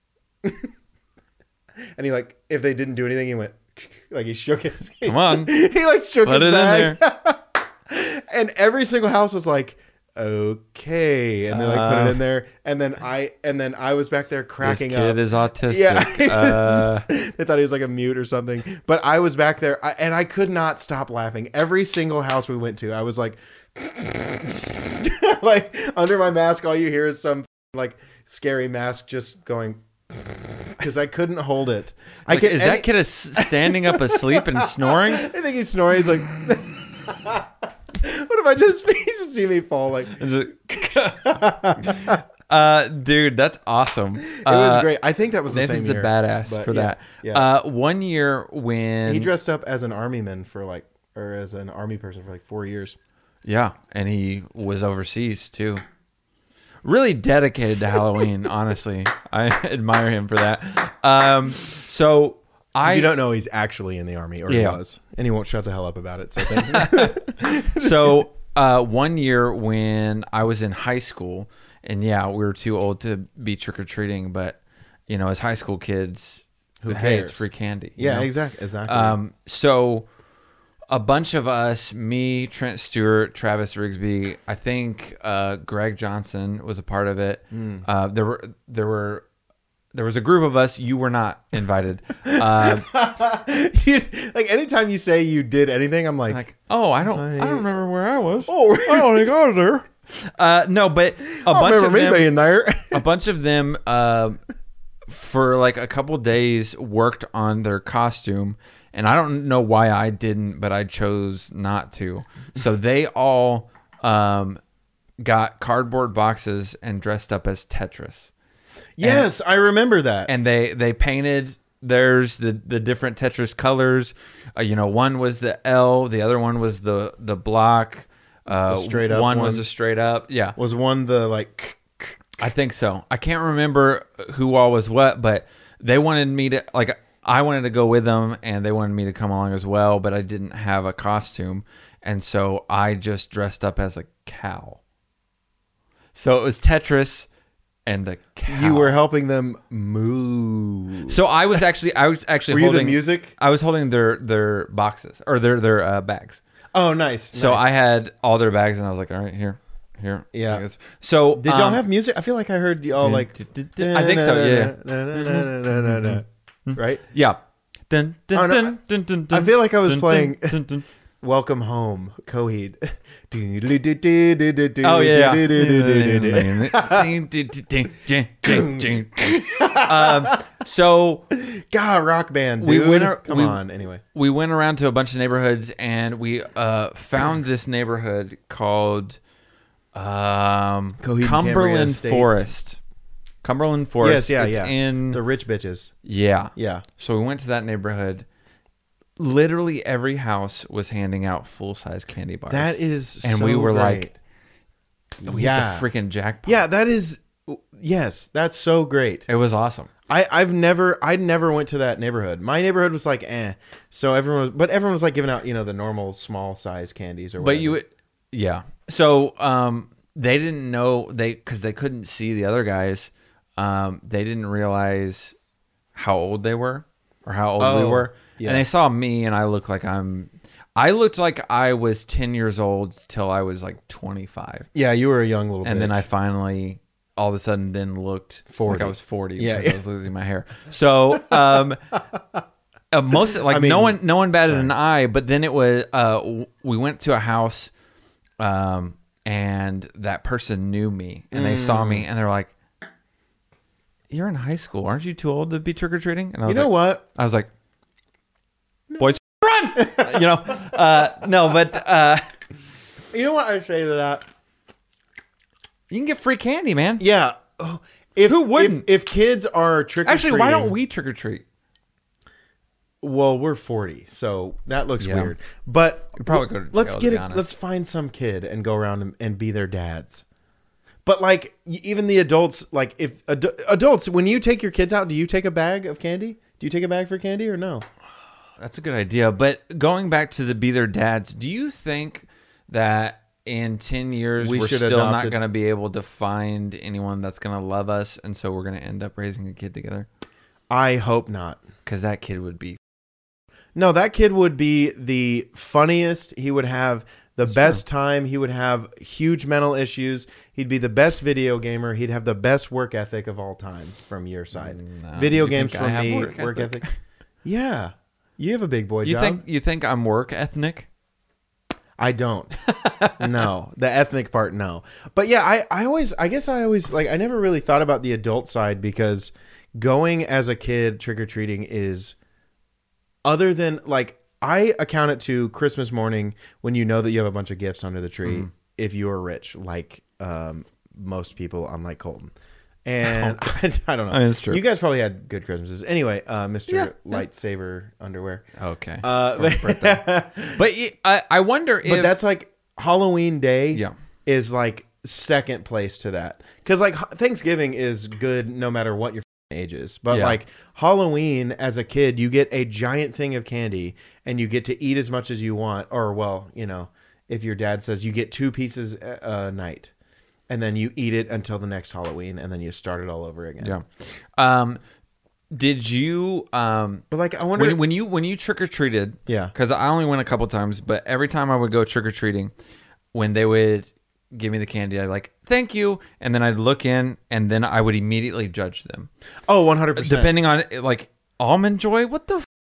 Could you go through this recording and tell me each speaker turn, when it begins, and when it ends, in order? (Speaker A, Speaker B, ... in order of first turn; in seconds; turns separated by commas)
Speaker A: 0.4-0.7, Speaker A: 1.9-40.2, Speaker B: 5.0-5.5, Speaker B: 6.2-7.0, Speaker B: 11.5-12.2, Speaker B: 14.6-17.0, Speaker B: 32.3-35.3, Speaker B: 40.1-44.9, Speaker A: 40.8-42.2, Speaker A: 44.3-47.5, Speaker B: 45.5-49.3, Speaker A: 49.1-53.0, Speaker B: 53.4-55.8, Speaker B: 56.8-63.1, Speaker A: 62.8-68.3, Speaker B: 64.5-64.8, Speaker B: 66.4-78.3, Speaker A: 76.8-77.5, Speaker A: 78.0-79.2, Speaker B: 78.8-80.1, Speaker B: 80.9-89.2, Speaker A: 87.5-87.8, Speaker B: 89.9-92.8, Speaker A: 92.2-96.4, Speaker B: 96.3-102.3, Speaker A: 97.0-97.7, Speaker A: 98.5-99.3, Speaker A: 101.4-103.0, Speaker B: 102.9-104.4, Speaker B: 105.1-114.6, Speaker B: 115.2-118.3, Speaker A: 119.0-120.3, Speaker B: 119.0-119.2, Speaker B: 120.3-130.6, Speaker A: 128.7-129.7, Speaker A: 130.6-132.2, Speaker B: 132.4-144.8, Speaker B: 146.1-147.3, Speaker B: 147.8-148.9, Speaker A: 148.5-151.2, Speaker B: 151.1-156.4, Speaker A: 152.5-153.3, Speaker A: 156.7-157.7, Speaker B: 157.3-161.8, Speaker A: 160.3-160.6, Speaker A: 161.3-167.0, Speaker B: 163.0-170.8, Speaker A: 168.3-168.8, Speaker A: 169.3-170.6, Speaker A: 171.2-177.1, Speaker B: 174.8-181.3, Speaker A: 178.4-180.4, Speaker A: 181.3-184.0, Speaker B: 182.6-183.6, Speaker B: 184.1-189.2, Speaker B: 189.9-192.8, Speaker A: 191.0-192.5, Speaker B: 193.4-195.2, Speaker A: 194.0-195.9, Speaker B: 196.0-198.2, Speaker A: 196.6-196.8, Speaker B: 199.2-204.1, Speaker A: 202.5-204.1, Speaker A: 205.2-205.8, Speaker B: 205.2-206.6, Speaker A: 206.4-209.3, Speaker B: 209.3-209.9, Speaker A: 210.1-217.8, Speaker B: 217.4-225.3, Speaker B: 225.9-234.7, Speaker A: 227.6-228.6, Speaker A: 234.7-236.0, Speaker B: 235.6-241.9, Speaker A: 238.5-239.8, Speaker B: 242.9-247.7, Speaker A: 243.4-244.7, Speaker B: 248.4-252.5, Speaker A: 251.3-252.1, Speaker B: 254.1-257.5, Speaker A: 256.5-257.0, Speaker B: 259.0-262.2, Speaker A: 259.7-261.0, Speaker A: 263.1-264.3, Speaker B: 265.9-267.0, Speaker A: 267.0-270.7, Speaker B: 268.2-268.9, Speaker B: 270.0-271.4, Speaker A: 273.0-280.2, Speaker B: 275.0-275.3, Speaker B: 276.1-277.5, Speaker A: 281.0-287.8, Speaker B: 288.6-300.1, Speaker A: 294.4-295.4, Speaker A: 300.7-301.6, Speaker B: 301.8-302.8, Speaker A: 303.7-316.8, Speaker B: 307.5-307.8, Speaker B: 314.5-316.9, Speaker A: 317.4-319.4, Speaker B: 319.0-320.9, Speaker A: 322.0-322.6, Speaker B: 322.6-323.4, Speaker A: 323.2-332.1, Speaker A: 333.2-342.3, Speaker B: 338.2-338.5, Speaker A: 342.8-348.4, Speaker B: 343.0-343.5, Speaker B: 344.1-344.6, Speaker B: 346.7-347.2, Speaker B: 348.6-352.1, Speaker A: 349.0-350.6, Speaker A: 351.8-369.9, Speaker B: 360.1-360.4, Speaker A: 370.5-373.7, Speaker B: 373.6-374.8, Speaker B: 375.5-382.5, Speaker A: 377.1-377.8, Speaker A: 379.3-379.5, Speaker B: 383.1-389.1, Speaker A: 389.5-390.3, Speaker B: 389.9-392.5